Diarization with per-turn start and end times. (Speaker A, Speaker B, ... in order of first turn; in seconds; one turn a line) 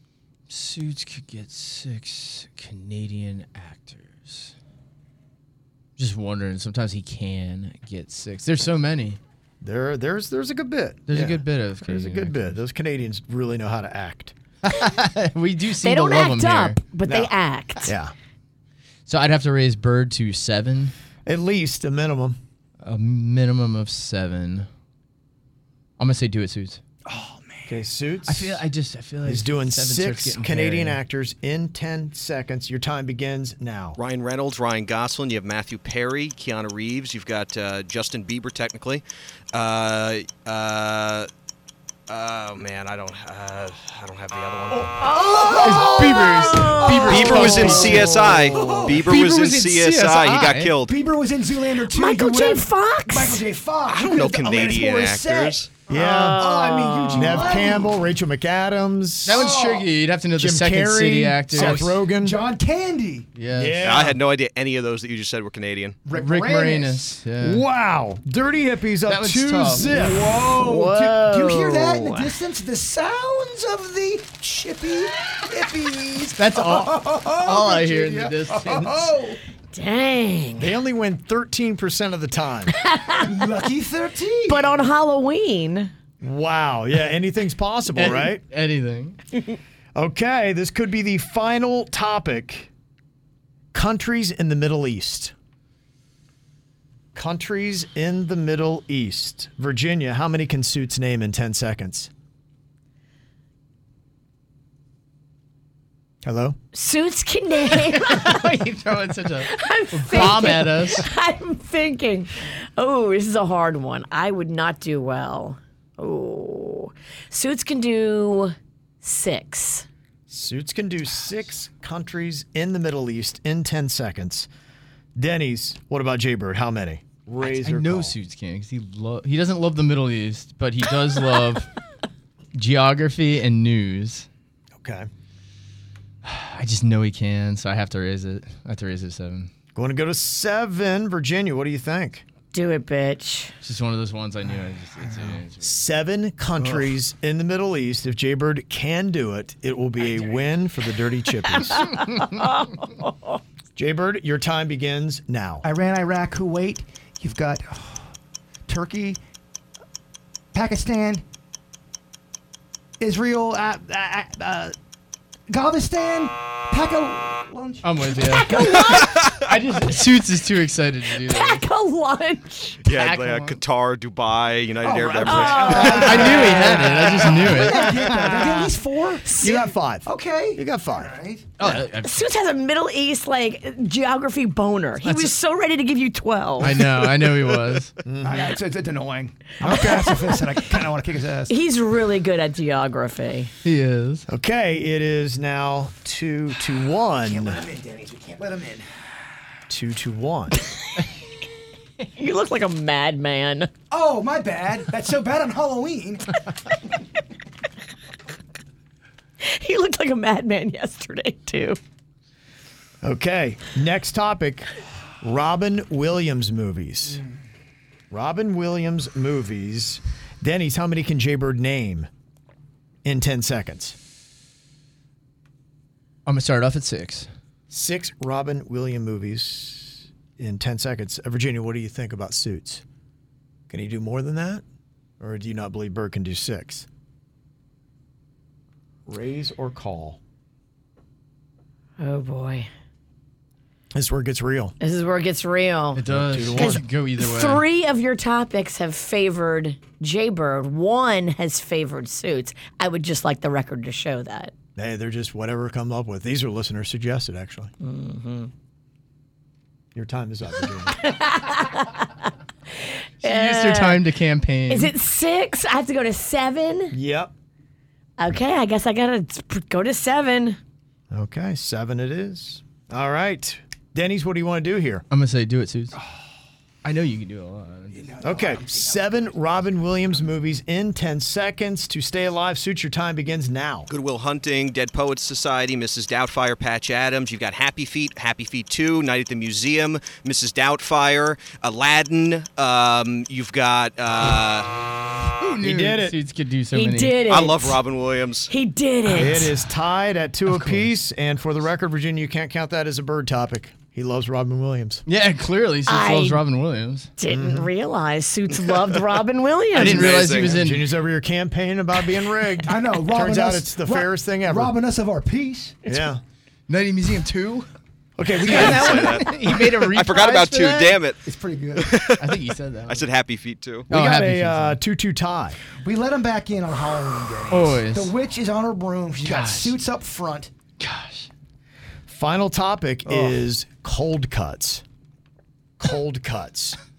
Speaker A: 0.5-4.5
Speaker A: 6.0-9.2
Speaker B: 9.6-14.3
Speaker A: 11.1-12.6
Speaker A: 14.7-16.8
Speaker C: 15.8-17.9
Speaker B: 17.1-17.3
Speaker B: 17.8-18.1
Speaker A: 19.1-20.9
Speaker B: 21.3-22.4
Speaker A: 22.8-24.7
Speaker A: 26.0-26.8
Speaker D: 27.1-27.8
Speaker B: 27.6-28.6
Speaker A: 28.3-31.0
Speaker B: 29.2-34.0
Speaker E: 34.0-41.3
Speaker E: 42.1-45.1
Speaker D: 44.7-49.3
Speaker C: 45.0-47.9
Speaker A: 45.5-50.7
Speaker E: 47.1-50.9
Speaker D: 50.8-58.0
Speaker C: 51.9-53.4
Speaker E: 53.9-55.7
Speaker B: 55.9-59.5
Speaker C: 55.9-57.8
Speaker A: 59.2-62.0
Speaker D: 59.3-59.9
Speaker B: 60.4-62.4
Speaker D: 61.5-63.3
Speaker A: 63.4-63.8
Speaker B: 63.5-64.2
Speaker E: 63.8-66.0
Speaker D: 66.0-67.2
Speaker A: 66.1-67.6
Speaker B: 67.4-70.3
Speaker A: 69.1-69.9
Speaker D: 69.9-79.4
Speaker C: 70.6-72.3
Speaker A: 76.4-79.2
Speaker C: 79.7-80.7
Speaker B: 80.6-82.7
Speaker C: 82.8-83.3
Speaker D: 83.2-84.8
Speaker C: 84.5-85.9
Speaker B: 86.2-88.4
Speaker A: 88.0-89.2
Speaker B: 89.9-92.7
Speaker B: 93.7-95.3
Speaker B: 97.2-102.1
Speaker B: 106.2-106.6
Speaker C: 106.7-108.6
Speaker A: 107.8-111.0
Speaker C: 109.5-119.9
Speaker B: 120.3-124.5
Speaker B: 125.2-128.2
Speaker A: 127.4-131.7
Speaker A: 132.6-134.3
Speaker B: 134.8-135.1
Speaker A: 136.2-139.5
Speaker B: 139.7-142.2
Speaker C: 142.5-143.5
Speaker A: 143.6-145.8
Speaker D: 145.0-145.3
Speaker B: 145.6-151.9
Speaker D: 146.6-146.9
Speaker D: 150.0-150.4
Speaker C: 151.8-153.4
Speaker B: 153.8-155.7
Speaker D: 155.6-158.1
Speaker D: 158.7-159.2
Speaker D: 160.5-161.2
Speaker D: 163.0-164.7
Speaker D: 165.5-169.3
Speaker A: 167.8-171.6
Speaker E: 169.0-169.5
Speaker C: 171.2-172.8
Speaker E: 172.8-176.5
Speaker A: 172.9-173.6
Speaker D: 174.8-181.5
Speaker C: 175.2-176.5
Speaker A: 175.9-177.9
Speaker B: 175.9-178.7
Speaker B: 179.3-181.8
Speaker A: 181.6-182.2
Speaker C: 182.0-186.8
Speaker A: 185.0-185.3
Speaker A: 186.6-187.9
Speaker B: 188.0-188.5
Speaker D: 188.2-191.5
Speaker B: 189.6-190.2
Speaker C: 191.5-193.5
Speaker A: 193.7-194.3
Speaker B: 194.3-197.7
Speaker D: 197.2-198.9
Speaker B: 199.7-200.6
Speaker C: 202.2-203.7
Speaker D: 203.9-206.3
Speaker C: 209.4-211.8
Speaker B: 213.0-214.7
Speaker B: 215.2-217.2
Speaker B: 218.1-222.1
Speaker B: 223.0-224.0
Speaker A: 226.3-227.3
Speaker B: 227.7-232.8
Speaker B: 233.7-234.6
Speaker B: 235.2-236.9
Speaker B: 239.1-240.2
Speaker C: 242.0-242.7
Speaker B: 243.9-244.7
Speaker C: 244.8-246.0
Speaker A: 245.9-247.6
Speaker B: 246.1-246.9
Speaker C: 246.5-254.5
Speaker B: 254.8-257.7
Speaker C: 257.8-258.5
Speaker B: 259.9-261.2
Speaker C: 261.0-262.1
Speaker C: 263.2-264.0
Speaker A: 263.2-264.9
Speaker C: 264.7-266.9
Speaker B: 266.9-267.3
Speaker C: 268.2-270.6
Speaker B: 271.1-275.1
Speaker A: 275.1-275.9
Speaker A: 276.8-278.1
Speaker D: 277.9-279.4
Speaker B: 278.2-283.9
Speaker E: 283.9-294.7
Speaker A: 295.4-297.2
Speaker B: 295.6-296.2
Speaker C: 296.7-297.8
Speaker E: 297.2-298.5
Speaker C: 298.5-299.5
Speaker B: 299.1-305.1
Speaker A: 300.5-300.9
Speaker A: 305.1-307.1
Speaker C: 305.9-306.4
Speaker C: 307.2-310.2
Speaker B: 307.3-307.7
Speaker A: 309.7-310.9
Speaker E: 309.7-310.6
Speaker B: 309.9-314.7
Speaker D: 312.6-315.8
Speaker B: 315.9-316.2
Speaker A: 316.7-317.7
Speaker B: 318.2-319.2
Speaker D: 318.4-319.3
Speaker A: 318.4-321.1
Speaker E: 318.4-321.2
Speaker D: 321.2-322.0
Speaker E: 321.8-322.3
Speaker A: 322.2-323.1
Speaker E: 322.9-323.9
Speaker A: 323.9-324.8
Speaker B: 323.9-325.6
Speaker D: 325.8-330.5
Speaker A: 327.5-328.1
Speaker A: 329.2-329.8
Speaker A: 330.8-331.3
Speaker B: 332.1-334.8
Speaker D: 333.1-333.3
Speaker B: 335.8-336.8